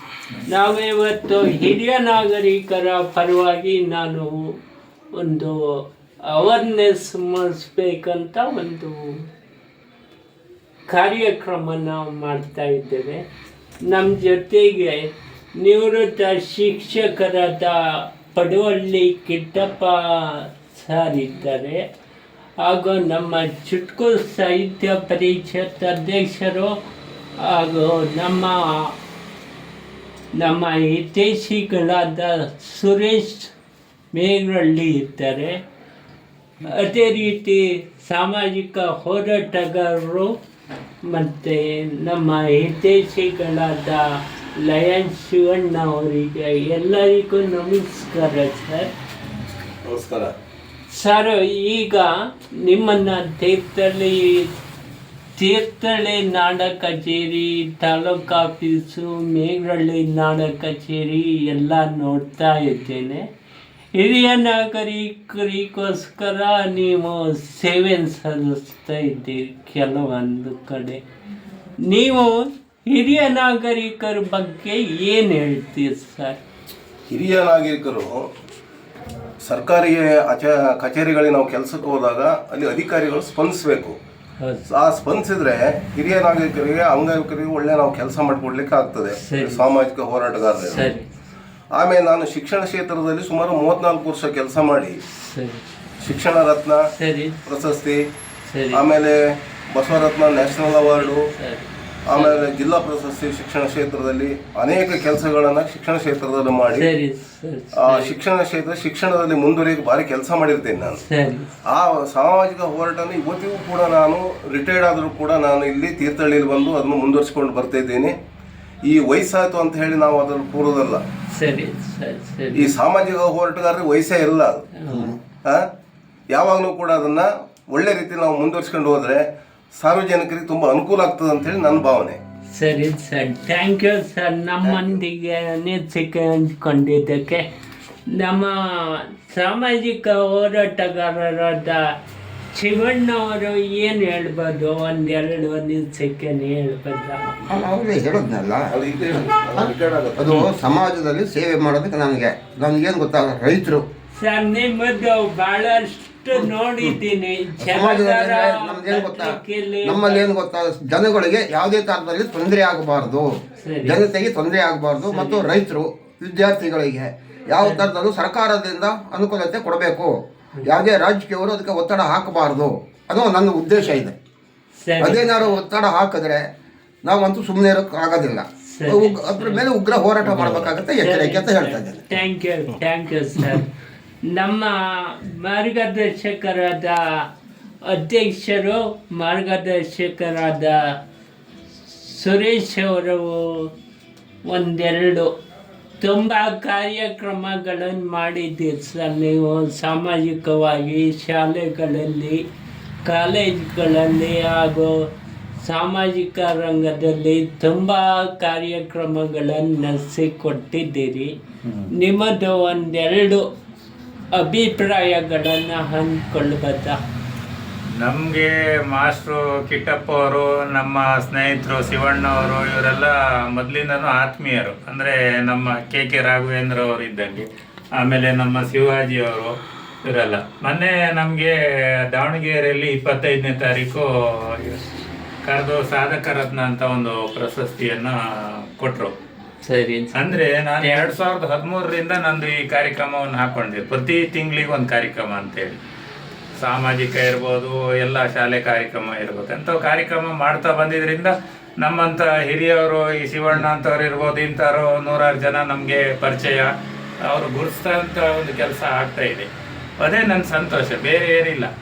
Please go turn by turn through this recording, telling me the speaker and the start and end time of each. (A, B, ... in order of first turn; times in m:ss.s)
0:00.4-0:04.6 A
0:05.1-0:09.3 A
0:10.9-0:13.2 A
0:13.8-0:21.9 A
0:22.6-0:26.8 A
0:27.4-0:29.0 A
0:30.3-0:33.5 A
0:34.1-0:35.6 A
0:36.6-0:40.4 A
0:41.0-0:48.9 A
0:49.8-0:50.3 B
0:50.9-0:54.5 A
0:55.4-1:03.3 A
1:03.9-1:11.0 A
1:11.8-1:16.4 A
1:17.1-1:18.3 B
1:19.4-1:24.0 B
1:24.4-1:24.6 A
1:24.7-1:30.9 B
1:29.2-1:29.6 A
1:30.7-1:31.1 A
1:31.7-1:35.0 B
1:35.1-1:35.6 A
1:36.0-1:36.8 B
1:36.9-1:37.4 A
1:37.4-1:38.0 B
1:38.4-1:38.8 A
1:38.7-1:41.3 B
1:40.6-1:42.5 A
1:42.0-1:46.9 B
1:46.7-1:48.2 A
1:47.7-1:51.0 B
1:51.0-1:51.5 A
1:51.6-1:58.2 B
1:58.8-2:01.0 B
2:01.3-2:02.7 A
2:02.5-2:04.6 B
2:04.8-2:05.2 A
2:06.3-2:12.2 B
2:12.5-2:17.5 A
2:14.6-2:15.0 B
2:18.1-2:21.9 A
2:22.5-2:27.3 A
2:27.5-2:33.8 C
2:28.7-2:30.4 B
2:34.2-2:40.2 A
2:37.6-2:43.3 C
2:43.6-2:44.0 A
2:43.8-2:54.2 C
2:45.0-2:45.5 A
2:47.6-2:47.9 A
2:54.8-2:55.4 A
2:55.0-2:56.5 C
2:57.0-3:02.0 C
2:58.7-2:59.6 A
3:00.2-3:03.7 A
3:04.2-3:07.2 A
3:07.8-3:11.0 A
3:11.8-3:13.7 A
3:14.4-3:15.3 A
3:16.0-3:22.4 A
3:23.0-3:25.1 A
3:25.6-3:31.3 A
3:31.6-3:31.9 D
3:31.9-3:33.4 A
3:34.3-3:37.0 A
3:37.9-3:49.5 D
3:50.0-3:51.5 D
3:52.1-3:54.8 D
3:55.4-3:58.2 D
3:58.8-3:59.1 D
3:59.6-4:01.1 A
4:00.1-4:05.8 D
4:06.6-4:16.7 D
4:17.3-4:19.5 D
4:20.0-4:21.7 D